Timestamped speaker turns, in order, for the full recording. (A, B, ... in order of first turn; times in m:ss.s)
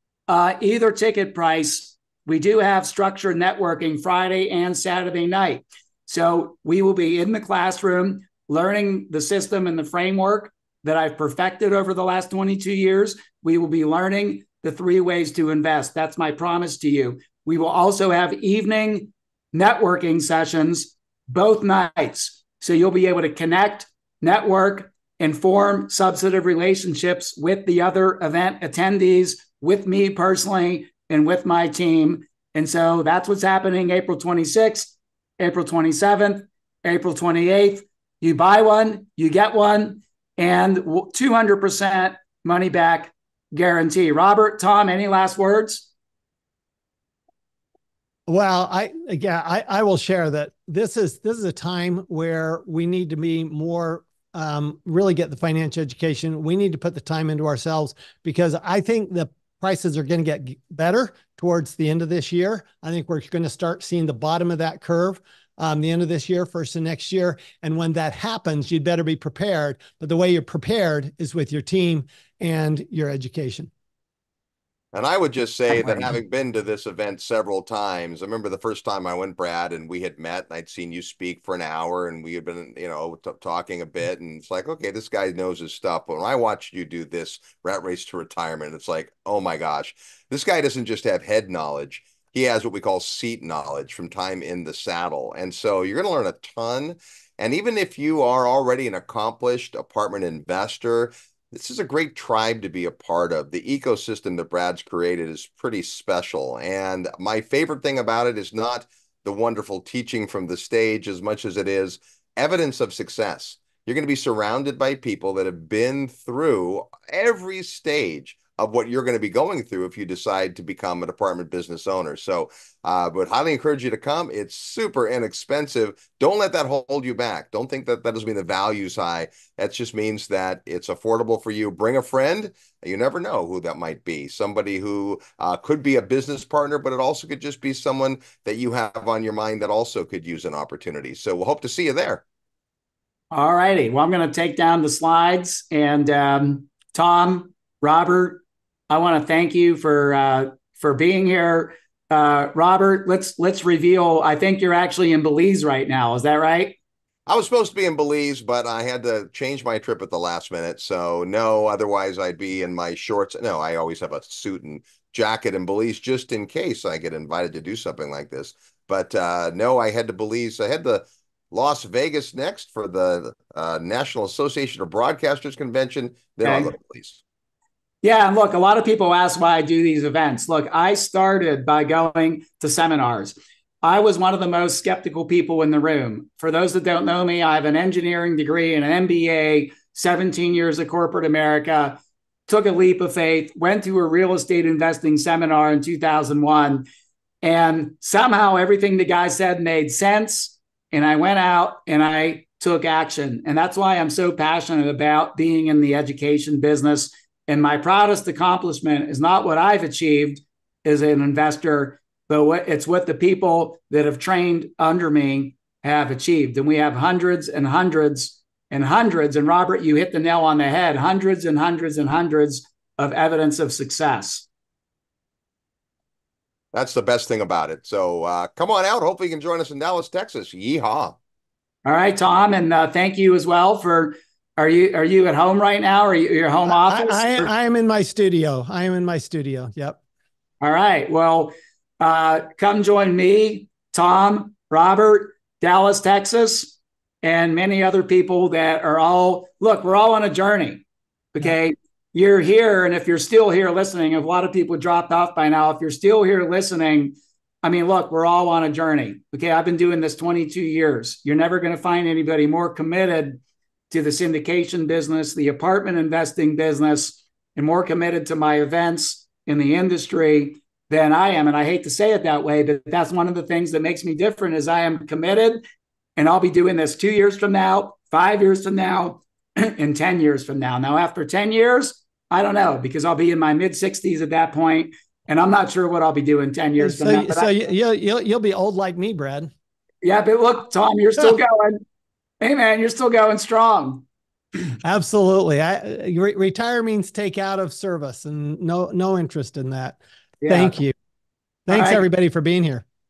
0:00.3-0:45.9 A
0:48.3-1:13.7 B
1:14.9-2:22.2 C
1:15.7-1:16.1 B
2:23.3-2:36.8 A
2:37.3-2:57.2 C
2:56.4-2:56.7 A
2:58.0-3:16.8 A
3:17.4-3:44.5 A
3:46.7-3:51.2 C
3:51.8-3:57.5 A
3:56.7-4:00.0 B
4:00.6-4:35.6 A
4:36.2-4:47.5 A
4:46.8-4:49.5 B
4:50.0-4:51.8 A
4:52.4-4:54.0 A
4:54.8-5:00.9 B
5:00.4-5:00.8 A
5:01.7-5:02.8 B
5:01.7-5:02.0 A